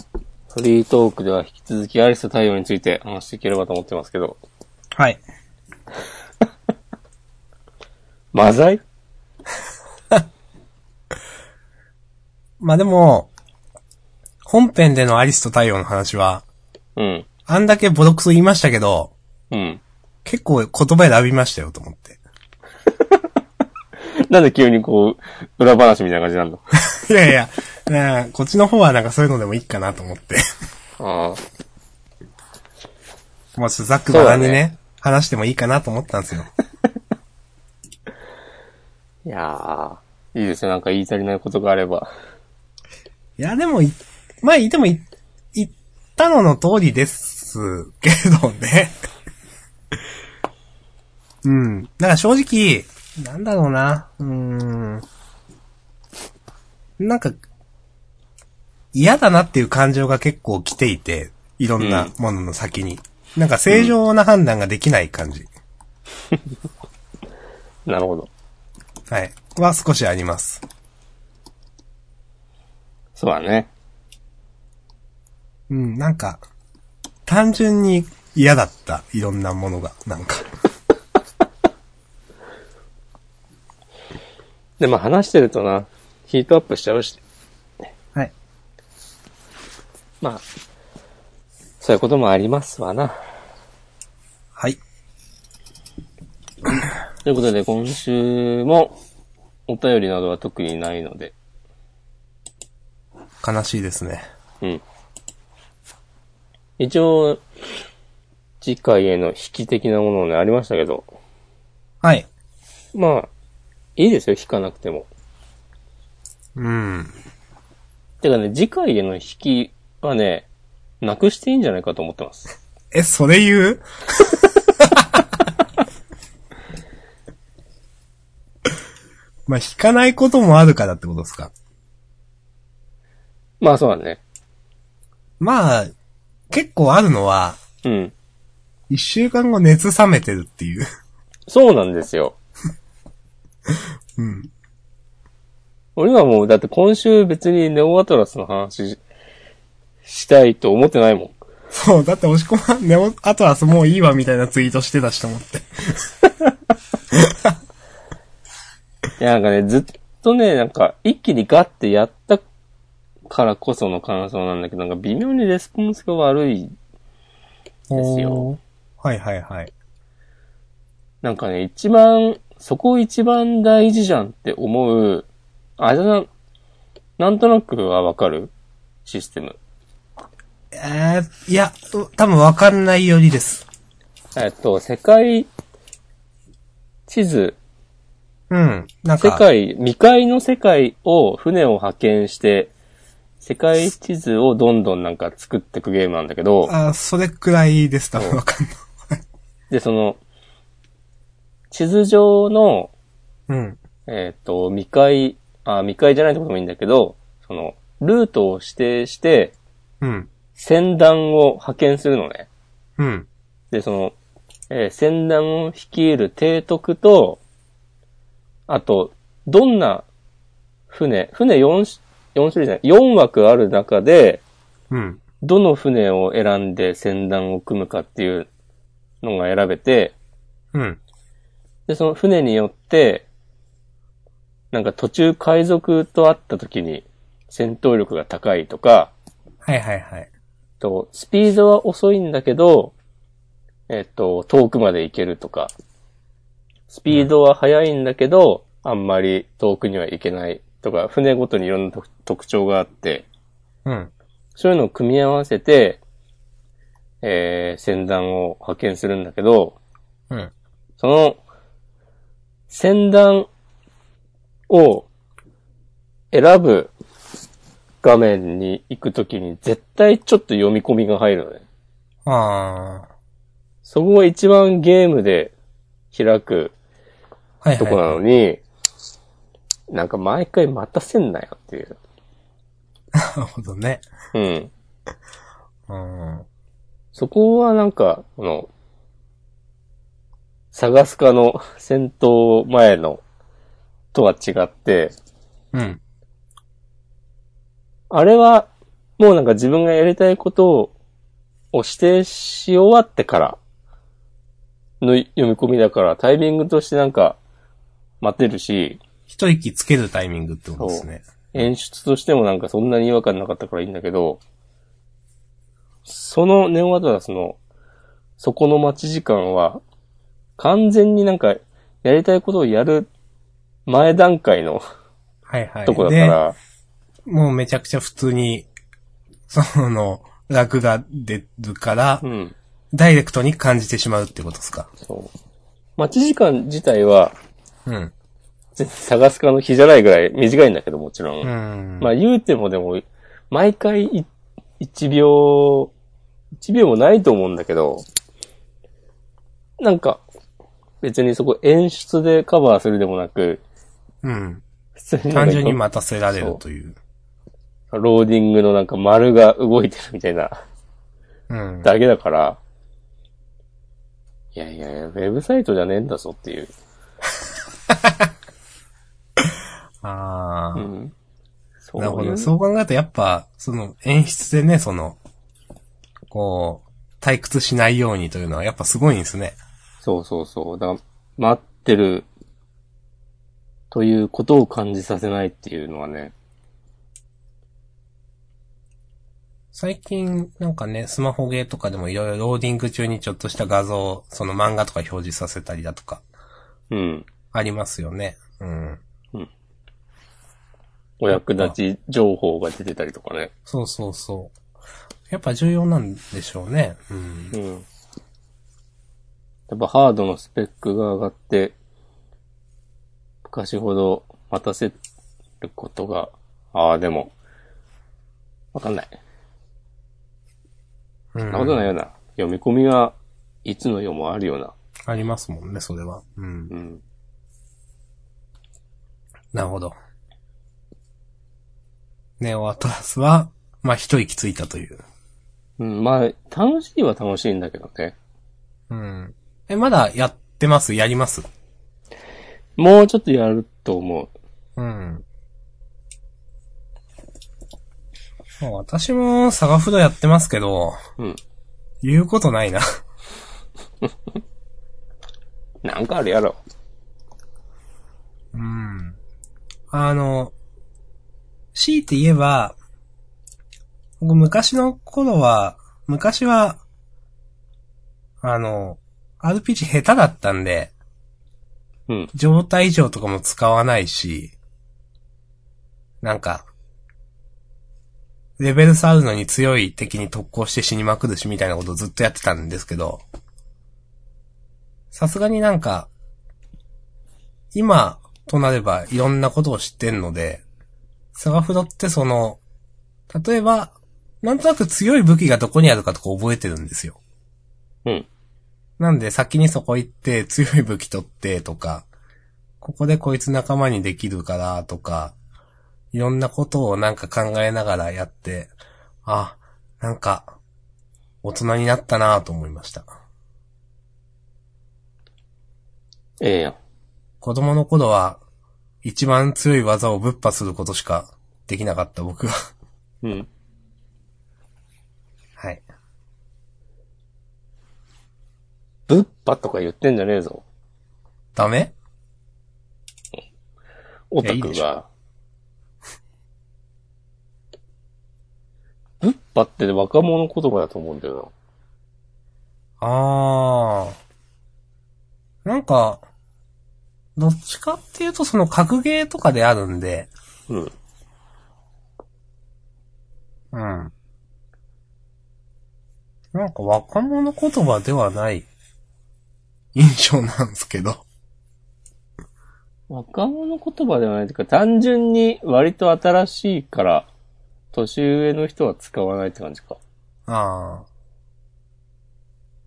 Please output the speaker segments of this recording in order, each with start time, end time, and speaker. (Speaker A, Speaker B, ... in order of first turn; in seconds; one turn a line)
Speaker A: 0.5-4.4
Speaker A: 8.3-8.8
Speaker B: 12.6-13.3
Speaker B: 14.5-16.4
Speaker A: 17.0-17.3
Speaker B: 17.5-19.1
Speaker A: 19.5-19.8
Speaker B: 20.2-22.2
Speaker A: 24.3-26.6
Speaker B: 26.9-30.4
Speaker A: 31.0-31.4
Speaker B: 33.6-36.5
Speaker A: 34.1-34.6
Speaker A: 39.3-42.1
Speaker B: 43.4-49.0
Speaker B: 51.4-55.1
Speaker B: 57.0-57.4
Speaker B: 58.9-65.5
Speaker A: 61.8-62.1
Speaker A: 63.7-63.9
Speaker A: 67.9-68.3
Speaker B: 69.1-70.6
Speaker A: 73.2-73.7
Speaker B: 75.7-76.4
Speaker B: 77.3-80.5
Speaker A: 84.8-87.2
Speaker A: 91.8-93.2
Speaker A: 97.2-98.9
Speaker A: 99.7-101.3
Speaker B: 103.4-104.3
Speaker A: 106.8-107.4
Speaker A: 108.6-111.1
Speaker B: 112.0-112.3
Speaker A: 112.9-113.3
Speaker A: 114.0-115.1
Speaker B: 116.6-117.2
Speaker A: 118.2-120.5
Speaker A: 121.0-122.5
Speaker B: 122.9-125.3
Speaker B: 129.5-131.5
Speaker A: 133.6-134.2
Speaker B: 135.4-135.9
Speaker B: 136.5-137.6
Speaker A: 137.8-138.1
Speaker B: 138.9-140.9
Speaker A: 141.5-142.4
Speaker B: 143.7-144.5
Speaker A: 146.0-149.0
Speaker A: 150.1-151.4
Speaker B: 151.7-156.1
Speaker B: 157.1-157.5
Speaker A: 159.2-162.4
Speaker A: 163.3-166.7
Speaker B: 167.9-169.7
Speaker A: 167.9-168.4
Speaker A: 171.2-175.3
Speaker A: 175.8-176.3
Speaker A: 177.2-178.5
Speaker A: 179.1-179.6
Speaker B: 180.7-183.7
Speaker A: 184.4-185.5
Speaker A: 187.1-187.6
Speaker B: 188.5-189.4
Speaker A: 189.2-192.7
Speaker A: 193.4-196.7
Speaker B: 196.7-199.2
Speaker A: 199.7-200.2
Speaker A: 201.7-202.9
Speaker B: 203.5-203.8
Speaker A: 204.1-209.6
Speaker B: 210.0-210.3
Speaker A: 210.6-212.5
Speaker B: 213.0-213.3
Speaker A: 213.7-214.2
Speaker A: 214.7-217.4
Speaker A: 218.7-220.1
Speaker A: 220.9-224.4
Speaker B: 224.9-225.2
Speaker A: 225.4-228.5
Speaker A: 229.2-230.2
Speaker B: 230.7-231.0
Speaker A: 231.9-233.3
Speaker A: 234.7-239.1
Speaker B: 239.6-240.3
Speaker A: 240.8-242.9
Speaker A: 243.9-245.7
Speaker A: 246.9-253.3
Speaker B: 253.8-254.1
Speaker A: 254.6-256.0
Speaker A: 257.2-259.8
Speaker A: 261.0-261.4
Speaker A: 262.7-263.5
Speaker A: 264.7-265.1
Speaker A: 266.3-266.9
Speaker A: 268.0-271.6
Speaker B: 272.3-273.1
Speaker A: 273.9-275.5
Speaker A: 276.1-276.7
Speaker B: 277.6-278.2
Speaker A: 277.8-278.6
Speaker A: 279.9-282.0
Speaker B: 283.1-284.1
Speaker A: 284.3-284.7
Speaker B: 285.9-286.5
Speaker A: 287.1-288.7
Speaker A: 290.7-293.2
Speaker A: 294.1-295.1
Speaker B: 295.7-296.0
Speaker A: 298.1-300.9
Speaker A: 301.7-303.6
Speaker A: 305.0-307.4
Speaker A: 308.2-309.0
Speaker B: 309.3-311.7
Speaker A: 310.8-314.4
Speaker A: 316.1-317.6
Speaker A: 318.4-319.8
Speaker A: 320.6-323.1
Speaker A: 323.9-324.8
Speaker B: 325.5-326.4
Speaker A: 325.9-326.6
Speaker B: 327.3-328.7
Speaker B: 329.5-332.2
Speaker A: 332.2-332.6
Speaker B: 332.9-334.9
Speaker A: 336.0-337.3
Speaker B: 337.9-338.1
Speaker A: 338.8-344.3
Speaker B: 341.4-342.1
Speaker A: 344.8-345.9
Speaker A: 346.6-348.1
Speaker A: 349.8-350.2
Speaker A: 351.0-353.6
Speaker B: 354.2-354.6
Speaker A: 355.0-355.8
Speaker B: 355.3-357.0
Speaker A: 356.3-356.6
Speaker A: 357.9-360.6
Speaker B: 361.5-361.9
Speaker A: 361.8-362.6
Speaker A: 364.6-366.7
Speaker B: 367.9-368.3
Speaker B: 369.4-370.9
Speaker A: 370.8-371.1
Speaker A: 371.9-372.5
Speaker B: 372.0-375.2
Speaker B: 376.3-379.6
Speaker A: 380.0-382.3
Speaker A: 383.9-386.3
Speaker B: 389.7-396.2
Speaker A: 396.9-397.3
Speaker B: 397.5-399.0
Speaker A: 401.2-403.5
Speaker B: 401.3-401.8
Speaker B: 403.7-404.6
Speaker B: 405.3-407.6
Speaker A: 407.5-407.9
Speaker A: 409.7-411.8
Speaker A: 413.5-415.0
Speaker A: 415.6-417.3
Speaker A: 418.7-419.2
Speaker B: 421.3-421.9
Speaker A: 421.5-424.7
Speaker B: 425.1-426.7
Speaker A: 426.7-427.0
Speaker B: 429.5-429.9
Speaker B: 432.4-435.0
Speaker A: 435.8-438.1
Speaker B: 438.9-441.5
Speaker A: 442.8-444.3
Speaker B: 444.8-445.2
Speaker B: 448.6-451.0
Speaker B: 452.0-452.8
Speaker A: 455.8-456.6
Speaker B: 458.5-459.2
Speaker B: 459.9-460.5
Speaker B: 461.7-462.8
Speaker B: 464.2-466.8
Speaker B: 468.4-470.9
Speaker B: 472.3-474.5
Speaker B: 476.2-476.7
Speaker B: 478.6-483.2
Speaker B: 485.1-486.1
Speaker B: 487.7-490.6
Speaker B: 491.3-492.6
Speaker B: 493.3-497.2
Speaker B: 499.0-502.1
Speaker B: 502.8-505.4
Speaker B: 506.1-508.7
Speaker B: 509.2-510.5
Speaker B: 511.4-513.1
Speaker A: 516.4-516.8
Speaker B: 517.4-518.4
Speaker B: 519.0-522.5
Speaker A: 523.2-523.5
Speaker B: 525.6-525.8
Speaker A: 529.1-530.6
Speaker B: 531.5-531.9
Speaker A: 534.3-535.1
Speaker B: 534.4-534.8
Speaker A: 539.2-541.5
Speaker B: 543.0-544.2
Speaker B: 545.6-546.2
Speaker B: 547.4-550.3
Speaker B: 553.7-554.1
Speaker B: 556.5-558.7
Speaker B: 559.9-561.2
Speaker A: 563.1-567.3
Speaker A: 567.9-570.0
Speaker B: 570.5-571.1